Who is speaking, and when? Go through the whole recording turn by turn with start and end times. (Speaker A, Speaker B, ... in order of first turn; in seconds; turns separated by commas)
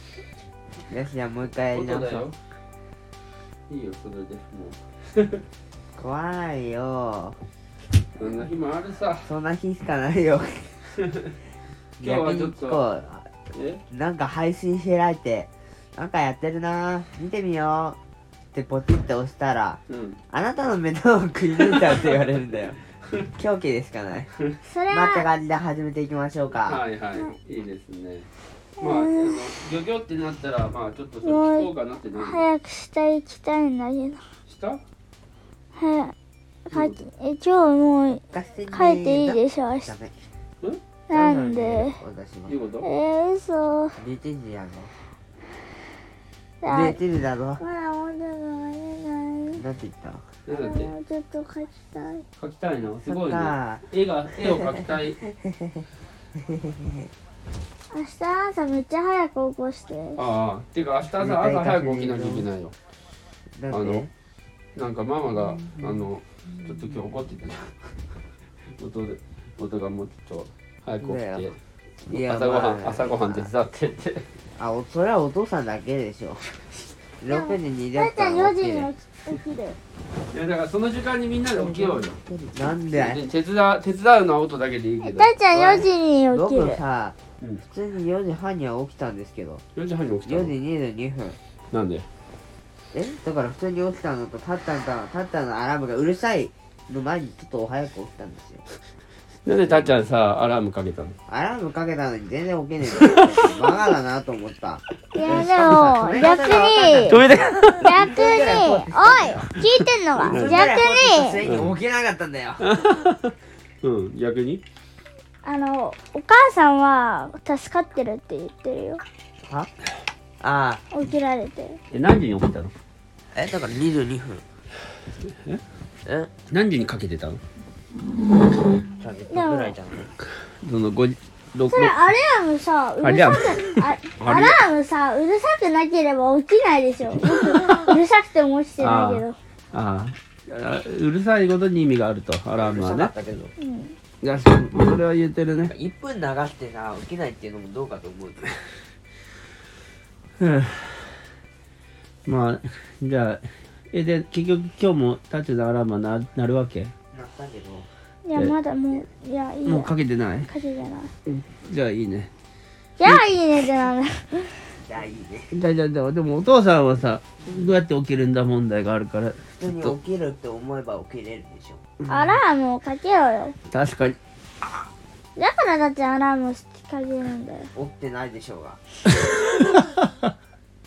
Speaker A: 0.9-2.2, Speaker B: 1.7-2.4, Speaker B: 3.7-5.4, Speaker A: 6.0-7.4, Speaker B: 8.2-9.3, Speaker A: 9.2-10.8, Speaker B: 11.0-11.3, Speaker B: 12.0-12.8, Speaker A: 12.0-13.3, Speaker B: 13.5-13.8, Speaker A: 13.9-18.0, Speaker A: 18.5-22.8, Speaker B: 19.9-20.2, Speaker A: 23.3-24.3, Speaker C: 24.6-25.3, Speaker A: 24.9-26.8, Speaker B: 26.6-28.3, Speaker C: 28.8-29.5, Speaker B: 28.8-32.5, Speaker C: 31.2-34.2, Speaker B: 34.5-34.8, Speaker C: 35.8-36.1, Speaker C: 36.7-39.9, Speaker B: 36.7-37.0, Speaker A: 38.3-40.2, Speaker C: 41.1-42.0, Speaker A: 41.1-42.5, Speaker B: 42.5-42.9, Speaker C: 42.8-44.0, Speaker A: 44.0-44.9, Speaker C: 46.6-47.0, Speaker A: 46.7-47.6, Speaker C: 47.6-49.6, Speaker A: 49.6-50.3, Speaker B: 50.5-50.9, Speaker C: 50.5-52.3, Speaker B: 52.4-55.2, Speaker A: 53.1-57.1, Speaker C: 57.9-60.2, Speaker B: 60.2-62.7, Speaker A: 61.2-62.5, Speaker A: 63.6-64.1, Speaker B: 63.7-64.1, Speaker B: 64.8-67.7, Speaker A: 65.3-66.1, Speaker A: 66.6-67.2, Speaker B: 68.8-71.5, Speaker A: 71.0-71.6, Speaker A: 72.1-73.5, Speaker B: 72.1-74.3, Speaker A: 74.6-78.9, Speaker C: 77.3-79.8, Speaker B: 80.3-82.2, Speaker A: 81.5-83.2, Speaker B: 82.9-85.3, Speaker C: 85.0-86.8, Speaker A: 85.5-89.6, Speaker B: 89.8-90.5, Speaker A: 90.2-91.4, Speaker B: 91.7-92.1, Speaker A: 92.9-98.6, Speaker B: 99.5-101.2, Speaker A: 99.6-100.0, Speaker A: 101.3-109.5, Speaker B: 103.0-103.7, Speaker C: 105.1-107.2, Speaker B: 105.3-105.9, Speaker B: 107.1-108.0, Speaker C: 107.8-111.4, Speaker B: 110.2-110.6, Speaker A: 110.2-112.7, Speaker B: 111.5-111.7, Speaker B: 112.6-114.6, Speaker C: 115.4-119.0, Speaker A: 119.4-119.7, Speaker A: 120.4-120.8, Speaker C: 120.9-121.8, Speaker B: 121.9-122.7, Speaker A: 123.3-124.5, Speaker B: 125.3-125.6, Speaker A: 126.1-126.3, Speaker B: 126.5-127.4, Speaker A: 129.0-130.1, Speaker C: 129.3-129.8, Speaker B: 130.6-131.9, Speaker C: 131.7-139.4, Speaker B: 133.0-134.6, Speaker B: 137.2-137.9, Speaker B: 138.8-143.1, Speaker A: 142.6-143.5, Speaker C: 143.6-144.0, Speaker B: 144.2-145.7, Speaker A: 145.7-148.8, Speaker B: 150.4-151.2, Speaker B: 152.3-156.9, Speaker A: 157.1-157.9, Speaker C: 158.2-159.9, Speaker B: 159.7-160.5, Speaker C: 160.5-161.1, Speaker B: 161.3-162.3, Speaker C: 163.0-164.7, Speaker A: 164.9-165.5, Speaker B: 165.5-169.9, Speaker A: 169.6-171.8, Speaker B: 172.0-172.4, Speaker C: 172.1-173.6, Speaker B: 173.7-174.2, Speaker C: 175.4-177.7, Speaker A: 177.8-178.8, Speaker B: 179.6-180.1